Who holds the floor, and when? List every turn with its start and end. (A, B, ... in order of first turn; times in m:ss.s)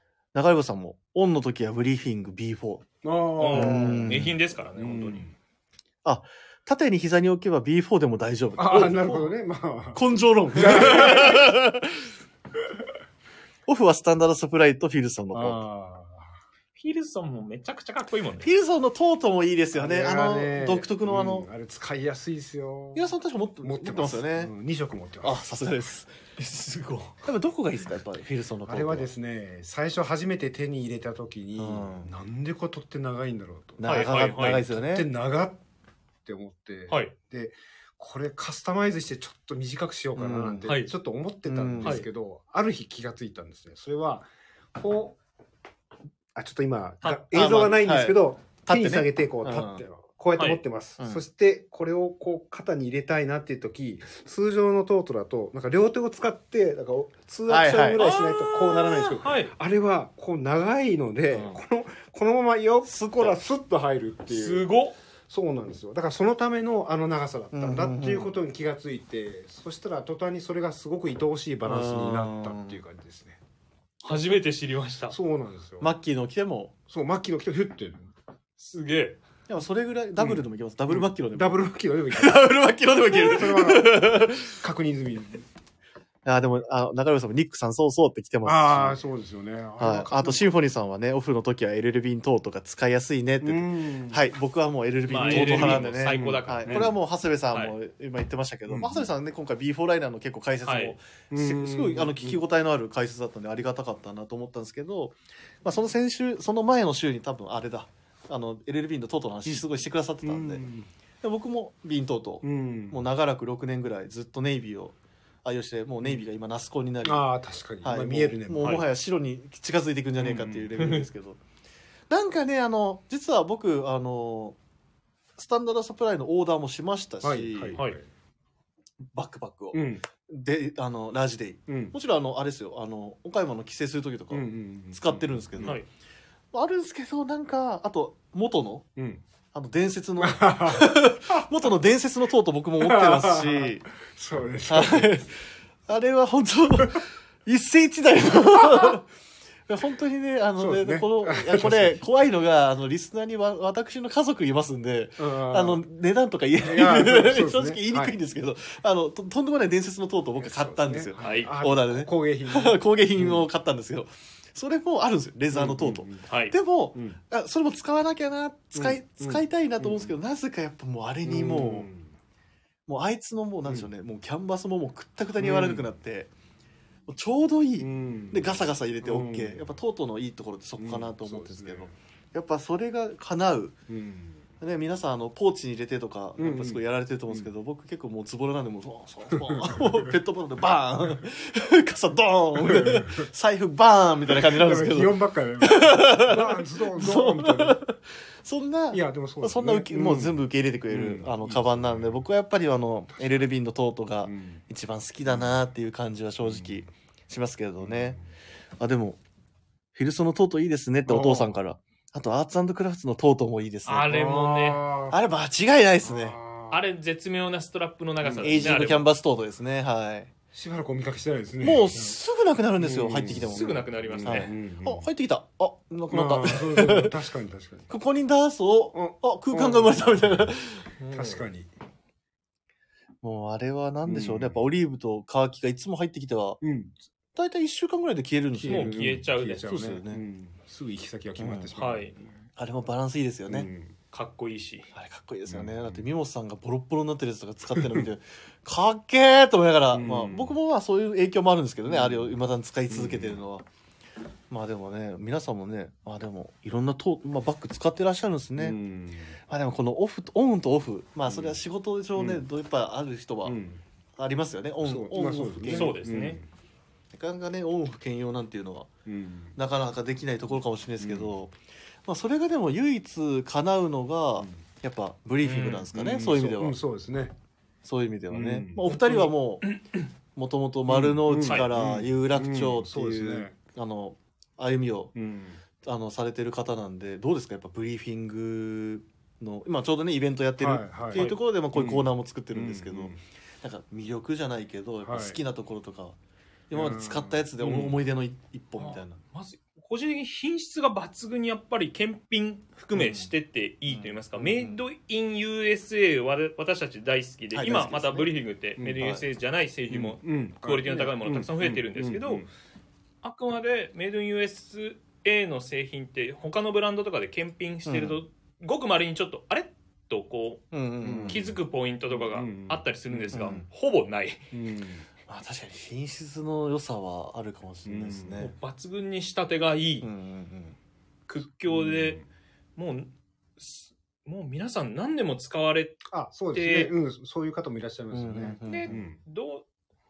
0:00.3-0:02.9 A
0:03.0-0:05.3 B
0:03.4-0:05.3 C
0:03.5-0:04.4 A
0:06.0-0:09.3 A
0:08.6-0:11.5 B
0:10.0-0:12.0 A
0:13.7-0:15.6 A
0:15.3-0:16.3 B
0:16.7-0:18.5 C
0:18.4-0:21.5 A
0:19.7-0:25.4 B
0:23.0-0:24.5 A
0:25.2-0:26.1 A
0:26.4-0:27.1 C
0:27.2-0:29.1 A
0:28.7-0:33.9 B
0:31.6-0:32.1 A
0:33.8-0:35.1 A
0:33.9-0:34.6 C
0:34.7-0:35.6 B
0:36.2-0:45.2 B
0:40.2-0:40.7 A
0:41.4-0:42.0 A
0:46.3-1:04.7 B
0:47.3-0:49.8 A
0:57.5-0:58.1 A
0:58.0-0:59.5 C
1:01.3-1:01.6 A
1:02.8-1:03.4 A
1:04.3-1:05.0 C
1:05.3-1:13.4 B
1:07.5-1:08.3 A
1:11.7-1:12.8 A
1:14.0-1:15.2 C
1:15.1-1:15.9 B
1:15.8-1:16.7 A
1:16.9-1:18.1 B
1:18.6-1:19.2 C
1:19.5-1:21.6 A
1:20.2-1:22.5 B
1:22.1-1:24.6 A
1:23.1-1:25.4 B
1:26.2-1:29.0 A
1:28.4-1:30.4 B
1:29.8-1:50.6 A
1:33.4-1:34.2 B
1:35.1-1:36.9 C
1:35.2-1:36.9 B
1:38.7-1:39.1 B
1:40.6-1:41.0 C
1:41.3-1:42.4 B
1:50.2-1:50.9 B
1:51.2-1:57.3 A
1:52.4-1:53.0 B
1:57.0-1:58.9 B
1:57.8-2:01.4 A
2:00.2-2:00.7 B
2:00.8-2:01.0 C
2:02.1-2:04.6 A
2:05.4-2:07.8 A
2:07.2-2:08.0 B
2:09.1-2:15.8 A
2:09.7-2:10.0 B
2:11.7-2:12.0 B
2:14.3-2:15.8 B
2:15.6-2:15.9 C
2:16.5-2:18.9 A
2:19.0-2:19.2 B
2:19.5-2:23.8 A
2:20.2-2:21.4 B
2:22.8-2:25.2 B
2:24.7-2:29.1 A
2:28.7-2:28.9 B
2:29.7-2:51.9 A
2:30.6-2:32.0 B
2:35.2-2:35.8 B
2:36.6-2:38.1 B
2:40.4-2:43.4 B
2:41.2-2:41.5 C
2:45.5-2:46.2 B
2:46.3-2:46.6 C
2:48.7-2:50.1 B
2:51.2-2:52.1 B
2:52.9-2:56.3 A
2:55.4-2:55.9 B
2:57.1-3:03.8 A
2:57.8-2:58.5 B
2:59.0-2:59.7 B
3:00.8-3:01.9 B
3:03.9-3:04.4 B
3:04.6-3:28.2 A
3:06.4-3:07.4 B
3:09.3-3:10.1 B
3:12.6-3:13.3 B
3:14.4-3:17.8 B
3:18.9-3:22.2 B
3:23.1-3:23.5 B
3:24.2-3:24.6 B
3:26.4-3:26.7 B
3:27.8-3:28.2 B
3:28.8-3:29.2 A
3:30.0-3:34.2 A
3:31.1-3:31.5 B
3:33.9-3:34.9 C
3:34.1-3:35.2 B
3:35.1-3:36.4 A
3:36.0-3:36.8 B
3:36.7-3:39.1 C
3:38.2-3:38.6 B
3:38.4-3:40.3 A
3:40.5-3:42.2 B
3:41.6-3:47.1 A
3:42.8-3:45.0 B
3:43.3-3:44.5 C
3:46.1-3:47.9 B
3:47.9-3:50.9 A
3:48.9-3:50.5 B
3:51.0-3:51.4 C
3:51.1-3:51.7 B
3:53.2-3:56.6 A
3:54.0-3:54.6 B
3:56.6-3:56.9 B
3:57.3-4:00.2 A
3:58.5-4:02.5 B
3:58.7-3:59.7 C
4:01.4-4:01.7 A
4:01.8-4:02.1 C
4:02.6-4:03.7 A
4:03.5-4:04.0 B
4:04.1-4:04.9 C
4:05.0-4:13.6 A
4:05.5-4:06.0 B
4:07.8-4:08.0 B
4:09.9-4:10.6 B
4:11.9-4:12.4 B
4:12.9-4:13.4 B
4:14.5-4:18.8 A
4:18.6-4:19.4 B
4:19.5-4:23.6 A
4:21.3-4:21.6 B
4:22.2-4:22.4 B
4:23.4-4:23.8 B
4:24.2-4:26.0 A
4:24.8-4:26.4 B
4:25.7-4:26.4 C
4:27.1-4:28.9 A
4:29.1-4:29.6 B
4:29.6-4:36.8 A
4:31.0-4:31.3 B
4:35.4-4:35.9 C
4:35.9-4:37.3 B
4:37.8-4:39.6 A
4:38.3-4:38.8 B
4:38.9-4:40.1 C
4:40.3-4:45.1 A
4:40.9-4:43.6 B
4:45.1-4:45.6 B
4:45.8-4:56.2 A
4:50.6-4:53.2 B
4:55.0-4:55.4 B
4:56.7-4:59.2 A
4:56.7-4:58.0 B
4:58.8-5:12.4 C
5:02.9-5:03.3 A
5:03.9-5:04.8 A
5:07.5-5:08.3 A
5:09.9-5:12.5 B
5:13.2-5:24.4 C
5:17.9-5:18.2 A
5:20.7-5:21.5 A
5:21.0-5:21.6 B
5:22.1-5:23.7 B
5:23.3-5:23.6 A
5:24.5-5:25.0 B
5:25.3-5:28.5 A
5:27.9-5:28.5 B
5:28.4-5:30.1 C
5:30.0-5:30.8 A
5:31.3-5:32.2 C
5:31.7-5:32.2 B
5:32.8-5:36.9 C
5:36.1-5:39.2 B
5:38.1-5:39.0 A
5:38.7-5:39.7 C